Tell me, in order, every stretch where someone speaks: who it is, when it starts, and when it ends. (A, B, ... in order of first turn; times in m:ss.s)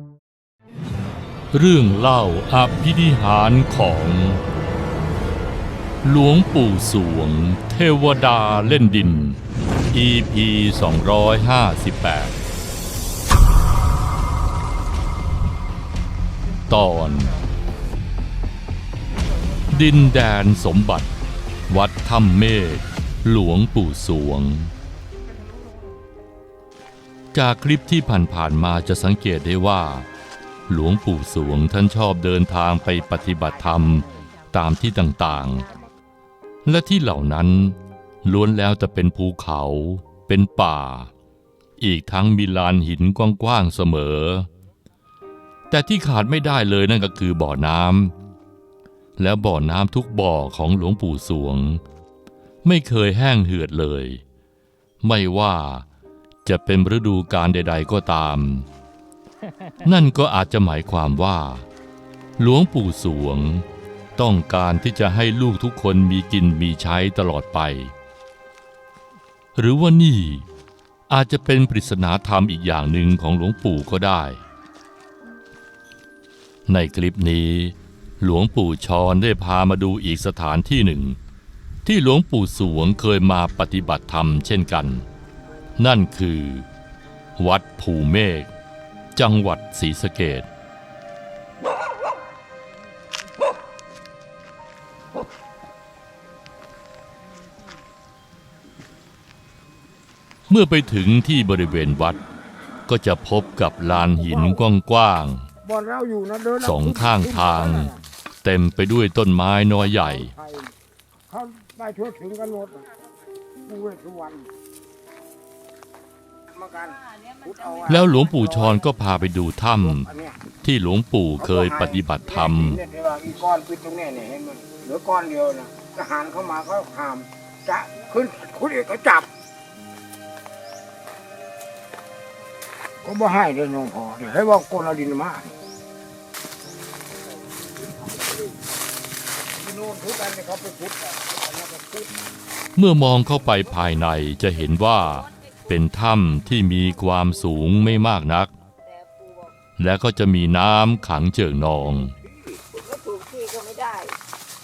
0:01.5-0:04.4 A
0:06.0-0:09.4 A
0:09.9-0:12.4 A
0:16.7-0:17.4 A
0:19.7-0:21.1 A
0:21.7-0:24.7 A
0:27.3-0:30.1 A
0:30.7-0:35.7 A
0:33.9-0:34.2 B
0:36.6-0:41.1 A
0:41.8-0:44.5 A
0:45.7-0:48.1 A
0:49.2-0:51.8 A
0:52.6-0:54.2 A
0:55.0-0:55.8 A
0:56.4-0:58.7 A
0:59.8-1:01.6 A
1:02.4-1:03.6 A
1:04.2-1:07.9 A
1:09.6-1:10.4 A
1:11.1-1:14.4 A
1:16.7-1:21.2 A
1:21.8-1:25.0 A
1:25.8-1:26.7 A
1:27.4-1:28.5 A
1:29.2-1:30.5 A
1:40.5-1:42.2 A
1:42.9-1:45.4 A
1:44.2-1:44.6 B
1:45.6-1:48.0 B
1:46.6-1:50.3 A
1:49.8-1:50.7 B
1:51.3-1:52.9 B
1:53.7-1:54.5 B
1:56.5-1:58.8 B
1:57.2-1:57.4 C
1:57.9-2:00.1 A
1:59.8-2:00.4 B
2:00.6-2:02.8 A
2:01.4-2:09.3 B
2:13.0-2:15.5 B
2:19.6-2:22.1 B
2:22.8-2:28.5 A
2:28.8-2:29.5 C
2:29.8-2:32.2 A
2:32.2-2:32.6 B
2:32.7-2:34.2 C